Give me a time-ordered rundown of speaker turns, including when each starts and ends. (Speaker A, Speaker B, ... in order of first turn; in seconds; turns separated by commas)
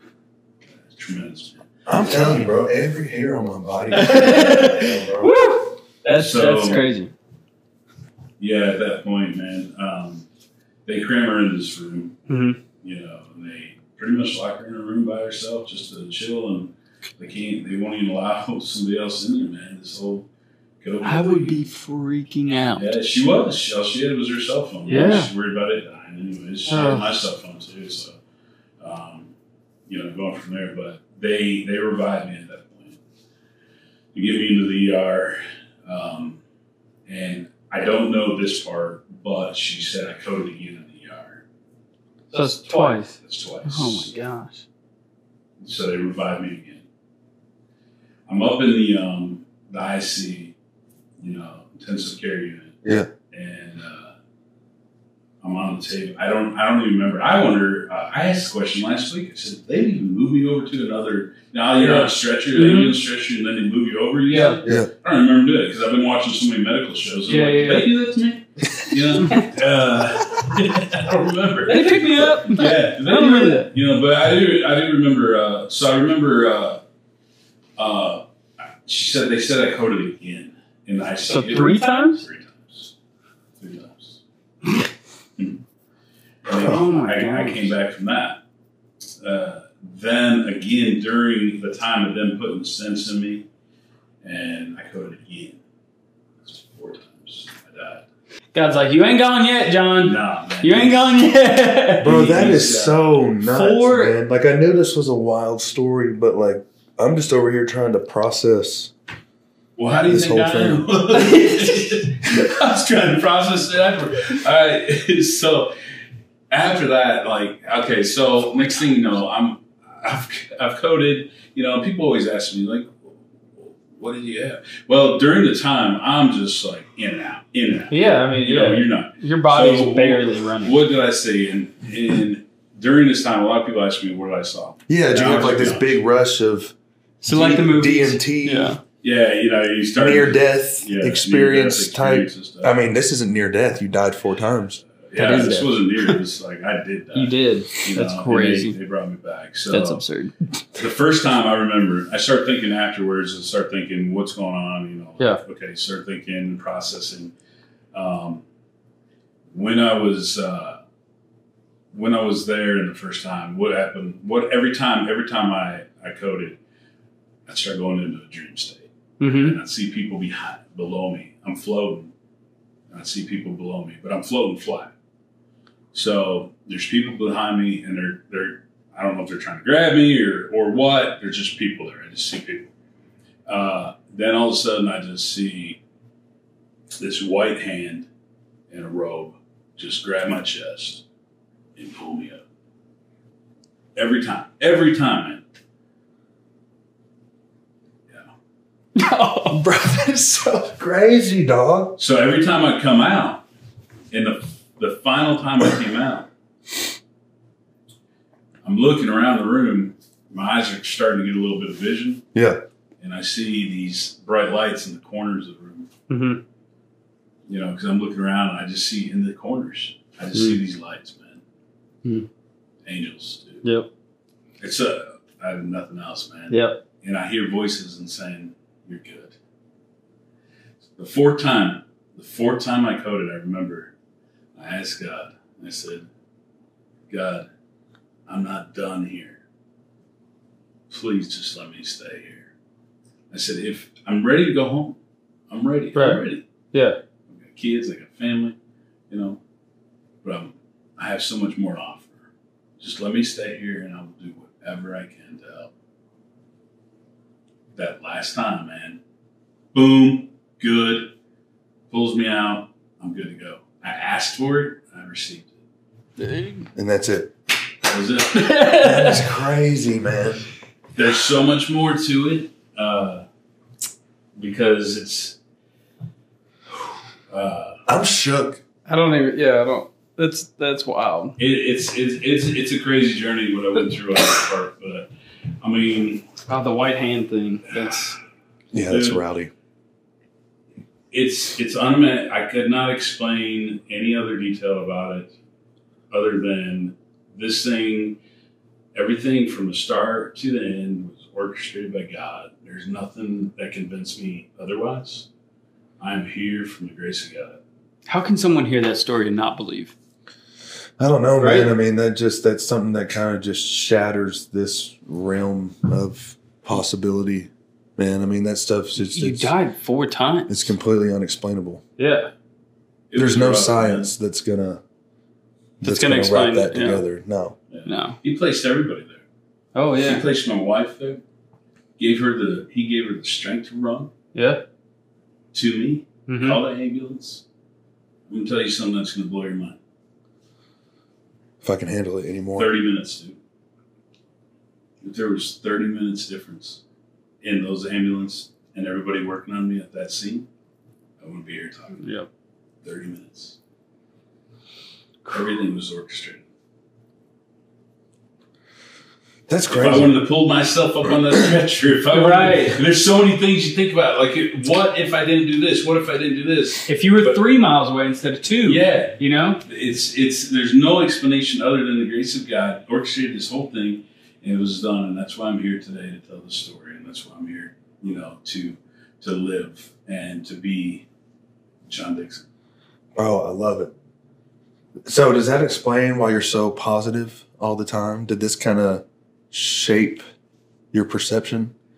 Speaker A: 0.9-1.7, Speaker B: 1.9-5.3, Speaker C: 3.9-7.1, Speaker A: 6.1-6.8, Speaker A: 8.4-10.2, Speaker A: 10.8-12.2, Speaker C: 12.3-12.6, Speaker A: 12.8-20.2, Speaker A: 20.8-21.6, Speaker C: 21.0-22.9, Speaker A: 22.7-28.1, Speaker C: 24.9-25.3, Speaker C: 26.7-27.1, Speaker A: 28.8-29.3, Speaker A: 29.9-33.0, Speaker A: 34.1-36.4, Speaker A: 37.1-41.4, Speaker C: 42.3-43.1, Speaker A: 43.2-44.1, Speaker C: 43.6-44.6, Speaker A: 45.6-46.8, Speaker A: 48.3-50.5, Speaker A: 51.2-52.8, Speaker B: 52.8-53.1, Speaker A: 53.3-54.1, Speaker A: 55.4-76.8, Speaker C: 61.8-63.0, Speaker C: 64.3-64.6, Speaker C: 67.3-67.9, Speaker C: 69.2-69.5, Speaker C: 71.7-73.7, Speaker A: 77.8-78.2, Speaker A: 78.8-82.9, Speaker C: 81.3-82.2, Speaker A: 83.6-84.2, Speaker A: 86.4-88.4, Speaker C: 86.5-87.7, Speaker A: 89.2-93.4, Speaker A: 94.2-95.6, Speaker A: 96.4-98.0, Speaker C: 98.5-102.5, Speaker A: 100.0-101.2, Speaker B: 102.0-108.9, Speaker A: 102.0-103.1, Speaker C: 103.4-104.2, Speaker A: 109.8-115.7, Speaker B: 110.1-110.8, Speaker C: 111.2-112.0, Speaker A: 116.5-123.0, Speaker A: 123.6-136.0, Speaker C: 127.9-130.8, Speaker B: 134.9-136.7, Speaker C: 137.2-138.8, Speaker B: 137.3-138.7, Speaker A: 139.0-142.8, Speaker B: 140.0-144.8, Speaker A: 145.0-150.0, Speaker C: 145.1-146.2, Speaker C: 147.1-148.7, Speaker C: 149.7-150.4, Speaker A: 150.7-157.3, Speaker A: 157.9-158.4, Speaker A: 159.5-160.8, Speaker A: 161.9-166.6, Speaker A: 167.4-172.1, Speaker C: 169.2-169.6, Speaker A: 172.9-174.9, Speaker A: 175.9-182.7, Speaker A: 183.5-185.8, Speaker A: 187.0-188.1, Speaker A: 188.7-191.0, Speaker A: 191.8-192.4, Speaker A: 193.9-195.4, Speaker C: 198.9-200.7, Speaker B: 200.8-202.0, Speaker A: 202.0-203.4, Speaker A: 204.1-206.3, Speaker A: 208.6-212.2, Speaker B: 212.3-212.6, Speaker A: 213.0-215.9, Speaker C: 216.1-216.4, Speaker A: 217.5-221.4, Speaker C: 220.3-220.6, Speaker A: 222.8-223.6, Speaker C: 223.6-223.9, Speaker A: 224.6-229.3, Speaker C: 226.5-226.8, Speaker A: 230.9-233.9, Speaker A: 234.6-236.0, Speaker A: 237.1-237.5, Speaker A: 238.3-239.4, Speaker A: 240.9-242.5, Speaker A: 243.3-245.0, Speaker A: 245.5-246.4, Speaker C: 245.9-247.0, Speaker A: 247.3-248.6, Speaker A: 249.1-249.4, Speaker A: 250.2-252.2, Speaker A: 252.8-255.7, Speaker A: 257.7-259.0, Speaker A: 259.7-261.1, Speaker A: 261.9-265.5, Speaker C: 266.2-266.7, Speaker B: 266.7-267.3, Speaker A: 267.8-268.7, Speaker C: 268.3-269.2, Speaker B: 268.8-270.4, Speaker A: 270.9-273.2, Speaker A: 274.4-275.4, Speaker A: 277.3-277.8, Speaker B: 277.9-278.6, Speaker C: 278.9-281.3, Speaker A: 281.4-285.1, Speaker A: 285.6-286.2, Speaker C: 286.5-288.2, Speaker B: 288.7-289.5, Speaker A: 288.9-289.2, Speaker A: 291.1-295.3, Speaker A: 296.1-298.2, Speaker A: 298.9-305.3, Speaker A: 306.0-307.6, Speaker C: 308.1-309.9, Speaker B: 311.0-319.5, Speaker C: 311.4-311.7, Speaker C: 319.1-320.7, Speaker B: 320.5-321.8, Speaker C: 322.0-322.3, Speaker A: 323.1-324.1, Speaker B: 323.1-324.8, Speaker B: 325.8-327.5, Speaker C: 325.8-327.1, Speaker A: 327.7-329.2, Speaker C: 327.9-328.2, Speaker C: 329.7-330.2, Speaker A: 330.0-331.2, Speaker A: 332.0-334.1, Speaker C: 334.3-334.6, Speaker A: 335.5-337.4, Speaker C: 336.3-336.6, Speaker A: 338.3-339.8, Speaker B: 341.6-342.7, Speaker A: 342.5-343.4, Speaker A: 345.0-346.8, Speaker A: 347.4-350.4, Speaker A: 351.2-352.0, Speaker C: 352.0-352.3, Speaker A: 352.8-353.6, Speaker A: 355.3-356.4, Speaker B: 359.5-360.1, Speaker A: 359.7-367.4, Speaker C: 362.1-362.8, Speaker C: 366.9-369.6, Speaker A: 368.6-381.1, Speaker A: 381.9-382.4, Speaker B: 383.1-383.9, Speaker B: 385.0-390.2, Speaker B: 390.9-391.7